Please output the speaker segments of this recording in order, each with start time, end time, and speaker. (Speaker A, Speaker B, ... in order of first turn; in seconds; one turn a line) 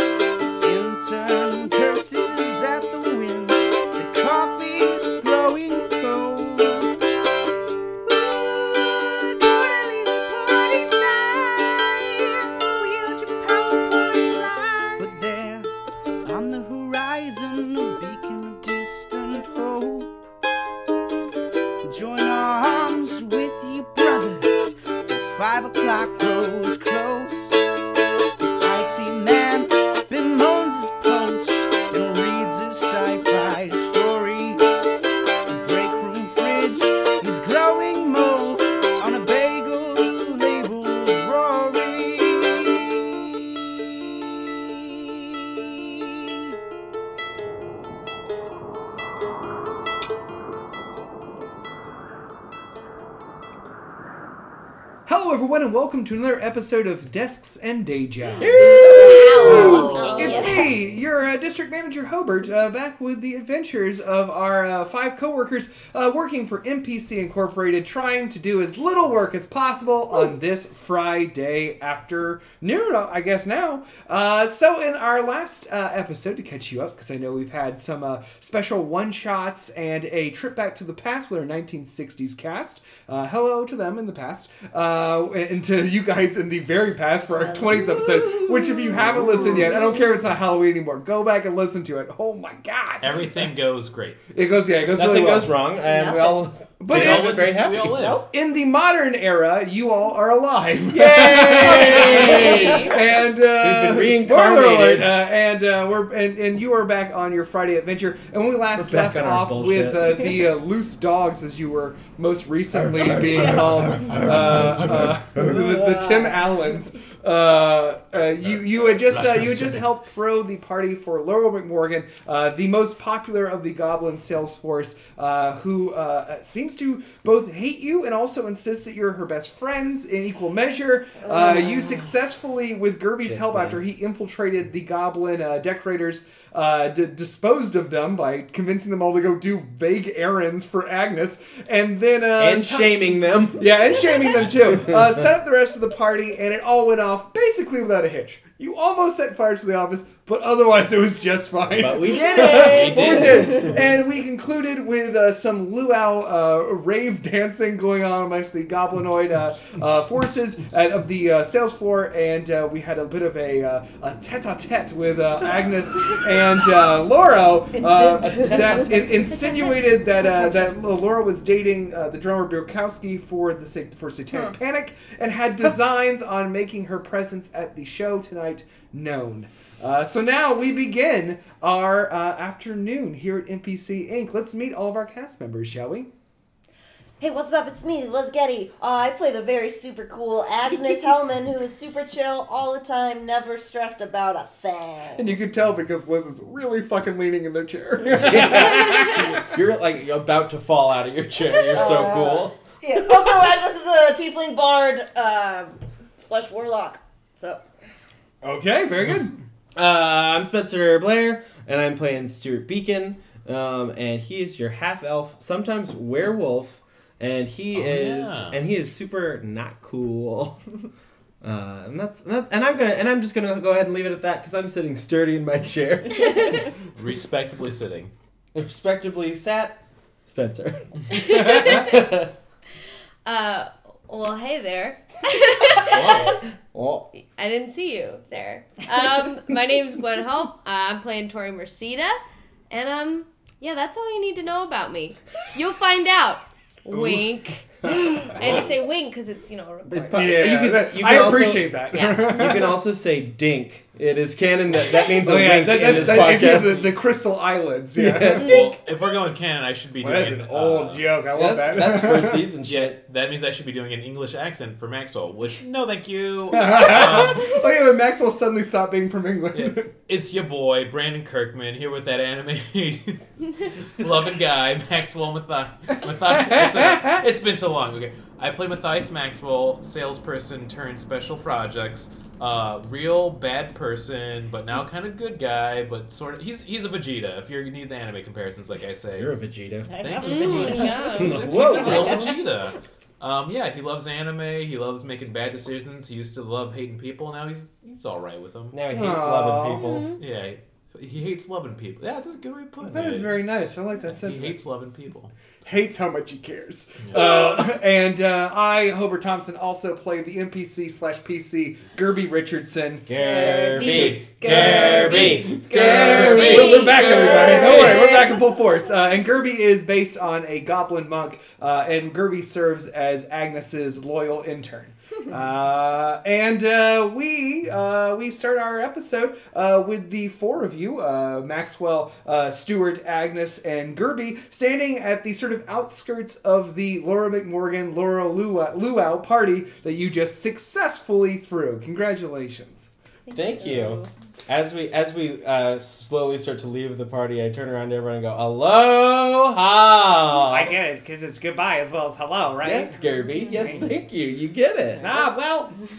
Speaker A: 0.6-7.0
Speaker A: 8.1-20.1
Speaker A: 21.8-27.6
Speaker A: 28.6-34.9
Speaker A: 35.5-43.7
Speaker A: 44.4-46.0
Speaker B: 55.0-93.2
Speaker C: 58.4-59.5
Speaker D: 58.4-60.7
Speaker E: 59.6-60.4
Speaker D: 87.4-89.6
Speaker F: 93.0-94.2
Speaker B: 94.3-95.5
Speaker C: 94.9-98.2
Speaker D: 95.8-96.5
Speaker B: 96.8-97.5
Speaker F: 96.9-98.2
Speaker B: 98.2-186.1
Speaker C: 100.9-105.2
Speaker E: 102.3-102.8
Speaker C: 108.8-110.4
Speaker C: 113.0-115.8
Speaker D: 115.9-116.4
Speaker F: 119.1-119.7
Speaker D: 131.2-132.0
Speaker C: 133.2-133.8
Speaker C: 142.4-143.9
Speaker C: 151.8-153.7
Speaker F: 152.5-153.8
Speaker D: 167.8-170.7
Speaker E: 169.5-170.1
Speaker D: 187.2-195.3
Speaker B: 195.2-199.4
Speaker C: 198.0-202.6
Speaker D: 201.7-207.6
Speaker B: 208.4-209.4
Speaker C: 209.8-220.7
Speaker F: 217.7-218.6
Speaker C: 221.4-226.7
Speaker F: 227.0-228.1
Speaker C: 228.5-232.3
Speaker E: 231.1-232.0
Speaker E: 233.2-236.4
Speaker F: 235.8-236.4
Speaker C: 236.7-237.1
Speaker E: 237.2-242.2
Speaker E: 242.7-250.4
Speaker F: 248.4-248.8
Speaker C: 249.9-256.9
Speaker B: 250.1-252.8
Speaker E: 251.9-252.3
Speaker B: 255.2-258.6
Speaker C: 257.9-258.7
Speaker E: 258.4-258.8
Speaker F: 258.4-261.1
Speaker B: 260.0-262.5
Speaker C: 261.3-263.0
Speaker F: 262.6-267.5
Speaker B: 266.5-269.9
Speaker F: 269.5-273.2
Speaker F: 274.0-289.3
Speaker C: 289.1-289.9
Speaker D: 289.9-292.3
Speaker F: 290.0-298.8
Speaker E: 290.2-292.3
Speaker C: 291.1-292.2
Speaker C: 298.7-300.2
Speaker B: 298.9-299.9
Speaker F: 300.2-303.4
Speaker B: 302.8-304.6
Speaker F: 304.0-305.3
Speaker B: 305.6-313.1
Speaker C: 313.1-316.7
Speaker D: 313.1-318.4
Speaker B: 313.7-342.9
Speaker E: 316.3-317.4
Speaker D: 343.2-344.1
Speaker C: 343.3-350.7
Speaker B: 350.4-353.9
Speaker C: 352.6-355.1
Speaker D: 353.4-353.6
Speaker D: 355.0-355.4
Speaker B: 355.0-355.8